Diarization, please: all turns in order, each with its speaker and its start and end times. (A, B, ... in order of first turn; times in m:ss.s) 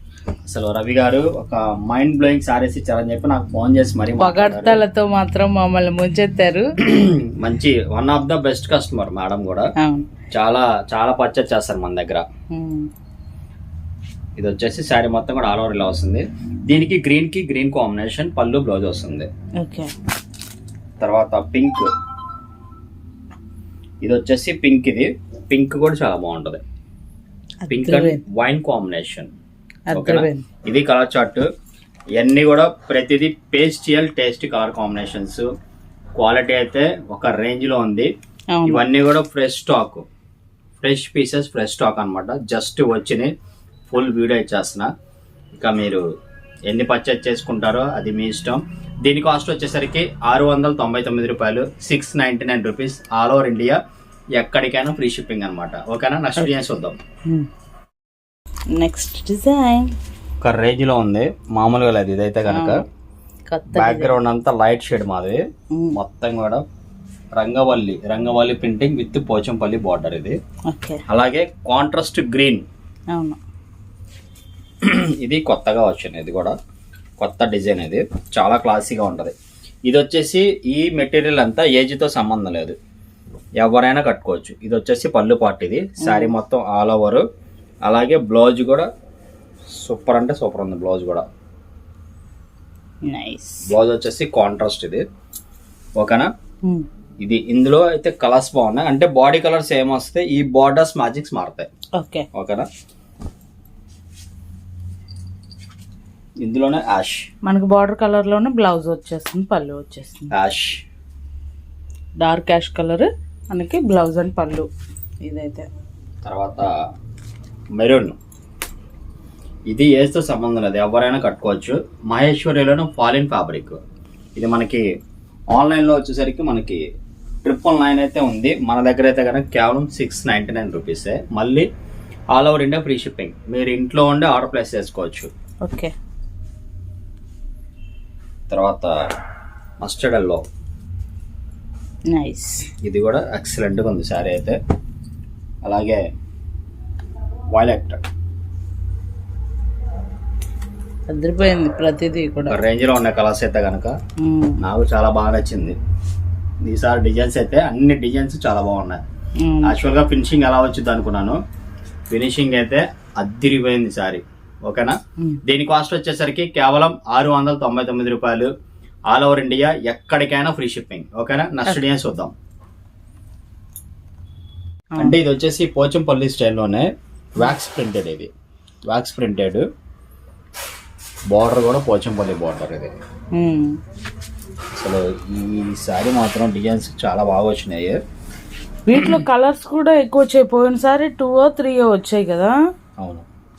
0:00.5-0:04.8 A
0:04.2-0:06.7 B
0:06.8-0:09.7 A
0:09.8-0:10.1 B
0:10.3-0:12.2 A
0:12.5-0:12.9 B
0:14.4-0:19.3 A
0:19.6-0:19.9 B
0:21.0-0:21.9 A
0:24.0-0:26.6 A
0:27.6-0:28.2 B
0:27.7-0:29.3 A
0:29.9-0:30.4 B
0:29.9-0:31.4 A
0:32.2-0:35.5 A
0:36.2-0:38.1 A
0:38.5-0:38.8 B
0:38.6-0:40.0 A
0:40.8-0:43.3 A
0:43.9-0:44.9 A
0:45.5-0:46.0 A
0:46.7-0:53.8 A
0:54.3-0:57.0 A
0:56.4-0:56.7 B
0:58.7-0:59.9 B
1:00.4-1:02.8 A
1:02.5-1:02.8 B
1:03.5-1:04.1 B
1:03.7-1:05.4 A
1:05.7-1:06.0 B
1:05.9-1:06.6 A
1:07.4-1:10.4 A
1:10.7-1:11.0 B
1:11.1-1:12.6 A
1:13.1-1:13.4 B
1:14.8-1:16.6 A
1:17.2-1:19.3 A
1:19.8-1:22.8 A
1:23.6-1:27.2 A
1:26.0-1:26.3 B
1:27.8-1:28.9 A
1:29.7-1:31.3 A
1:33.0-1:33.7 B
1:33.6-1:35.0 A
1:36.0-1:36.3 A
1:37.2-1:41.7 A
1:41.9-1:42.3 B
1:42.3-1:42.7 A
1:46.4-1:47.3 A
1:47.4-1:50.3 B
1:50.3-1:50.8 A
1:52.2-1:54.7 B
1:55.2-1:55.7 B
1:56.2-1:56.7 A
1:57.8-1:58.2 A
1:59.7-2:03.8 A
2:04.4-2:04.9 A
2:05.5-2:06.8 A
2:07.4-2:11.7 A
2:12.3-2:15.3 A
2:15.6-2:15.9 B
2:18.5-2:19.1 A
2:19.8-2:20.4 A
2:22.1-2:22.7 B
2:22.8-2:24.6 A
2:25.6-2:26.0 A
2:27.5-2:28.0 A
2:31.1-2:32.6 B
2:32.4-2:33.9 A
2:34.2-2:34.6 B
2:34.6-2:35.8 A
2:36.6-2:39.0 A
2:39.4-2:39.8 B
2:39.6-2:41.4 A
2:42.1-2:48.5 A
2:49.1-2:52.3 A
2:55.0-2:58.3 A
2:58.9-2:59.7 A
3:01.3-3:02.9 A
3:03.3-3:03.8 B
3:04.8-3:08.0 A
3:08.9-3:12.6 B
3:13.0-3:13.3 A